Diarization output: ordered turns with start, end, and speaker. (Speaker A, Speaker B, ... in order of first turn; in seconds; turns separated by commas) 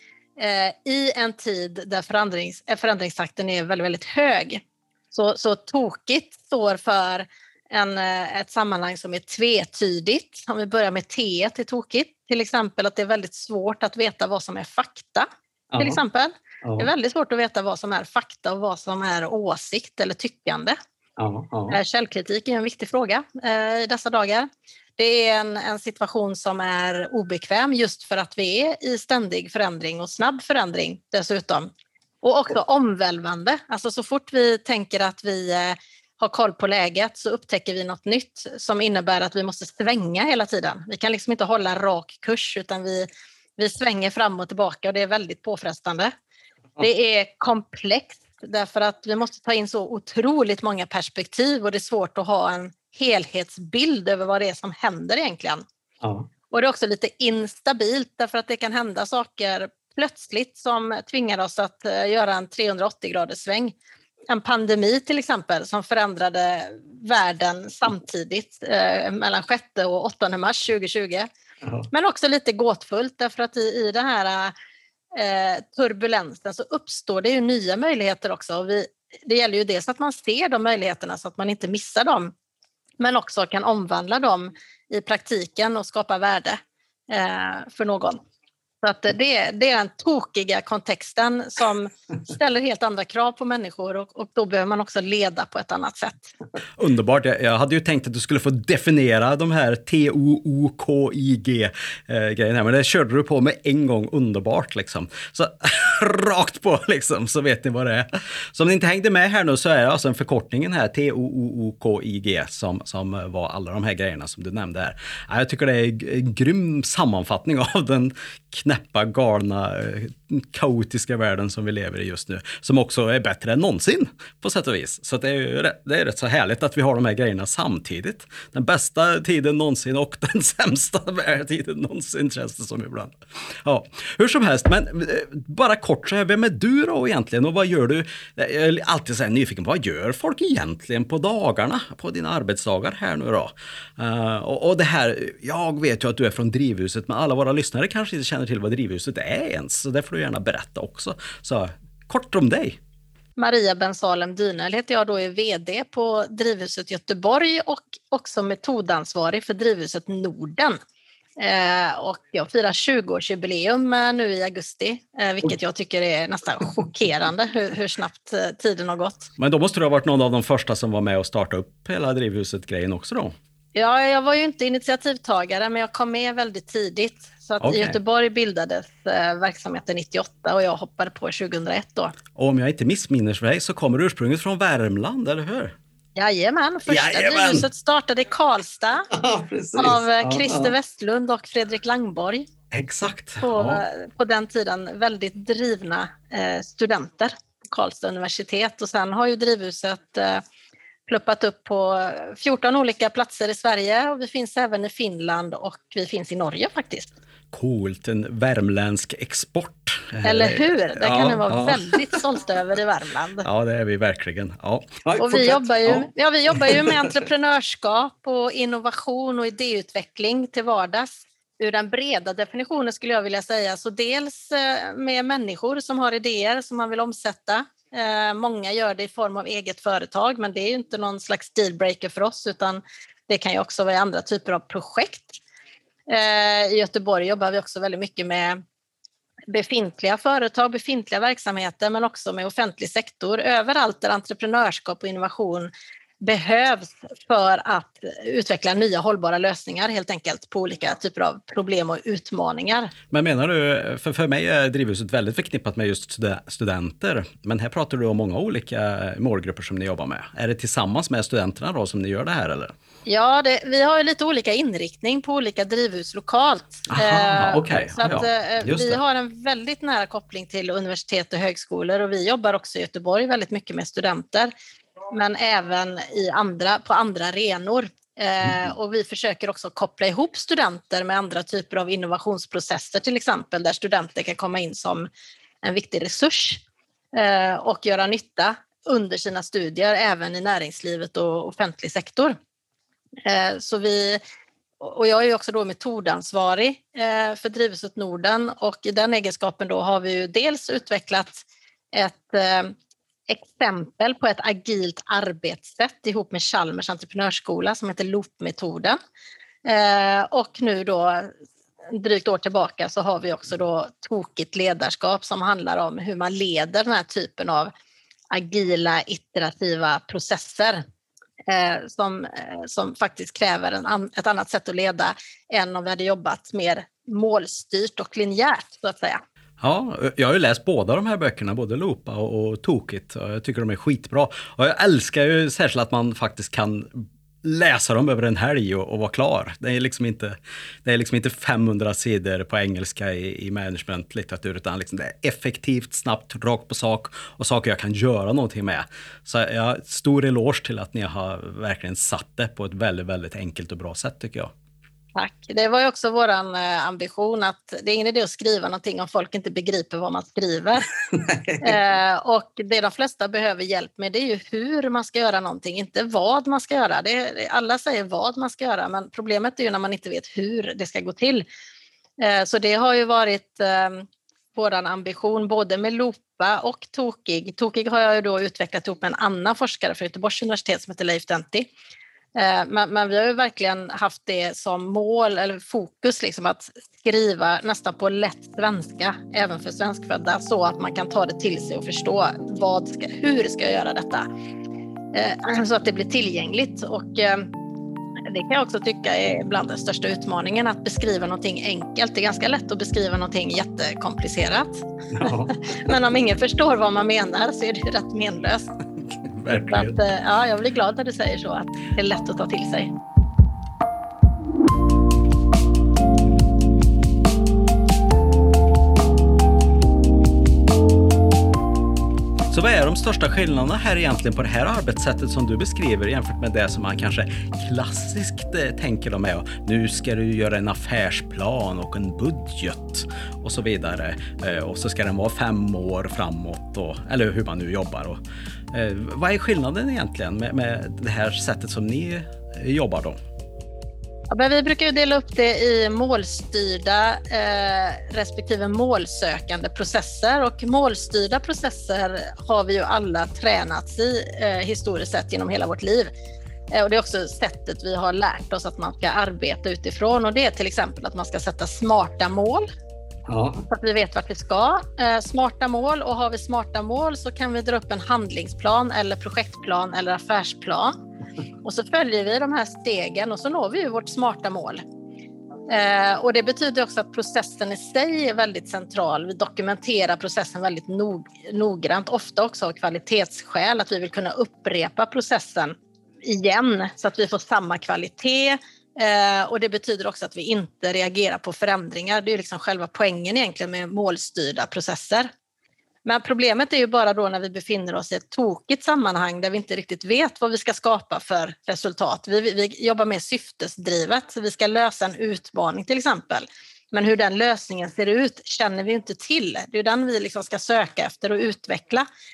Speaker A: 0.4-15.3, Speaker B: 15.7-16.0, Speaker A: 15.8-20.8, Speaker B: 16.6-16.9, Speaker B: 21.2-21.8, Speaker A: 21.7-31.7, Speaker A: 32.2-46.1, Speaker A: 46.8-55.6, Speaker B: 56.0-56.3, Speaker A: 56.5-63.8, Speaker A: 64.3-71.3, Speaker A: 71.9-74.5, Speaker A: 75.2-82.3, Speaker A: 83.0-88.2, Speaker A: 88.8-96.3, Speaker B: 96.8-152.8, Speaker A: 153.4-160.8, Speaker A: 161.4-169.3, Speaker B: 169.4-173.3, Speaker A: 173.8-182.2, Speaker B: 177.6-178.0, Speaker B: 182.4-185.8, Speaker A: 186.2-189.1, Speaker B: 186.9-187.7, Speaker B: 189.1-190.7, Speaker A: 189.8-192.5, Speaker B: 192.7-193.8, Speaker A: 193.4-200.4, Speaker A: 201.1-207.1, Speaker B: 207.5-212.1, Speaker A: 210.2-213.5, Speaker B: 213.4-217.1, Speaker A: 215.2-235.4, Speaker A: 236.1-238.6, Speaker A: 239.5-252.9, Speaker B: 253.1-262.7, Speaker A: 263.1-274.5, Speaker B: 266.9-269.0, Speaker A: 275.1-285.1, Speaker A: 285.6-286.6, Speaker A: 287.1-292.4, Speaker A: 293.2-294.2, Speaker A: 294.8-302.8, Speaker A: 303.3-309.0, Speaker A: 309.6-311.3, Speaker A: 311.9-317.7, Speaker A: 318.3-320.8, Speaker A: 321.5-329.2, Speaker B: 329.6-354.5, Speaker A: 355.1-360.9, Speaker B: 361.1-361.8, Speaker A: 361.6-371.4, Speaker A: 372.2-381.7, Speaker A: 382.4-394.3, Speaker A: 395.1-397.5, Speaker A: 398.3-408.7, Speaker B: 405.2-405.6, Speaker B: 409.2-410.0, Speaker A: 409.5-412.9, Speaker B: 422.5-438.2, Speaker B: 438.7-443.2, Speaker A: 444.3-456.1, Speaker A: 456.7-462.7, Speaker B: 463.3-463.6, Speaker A: 463.7-471.0, Speaker A: 471.6-474.8, Speaker A: 475.7-495.3, Speaker A: 496.1-512.1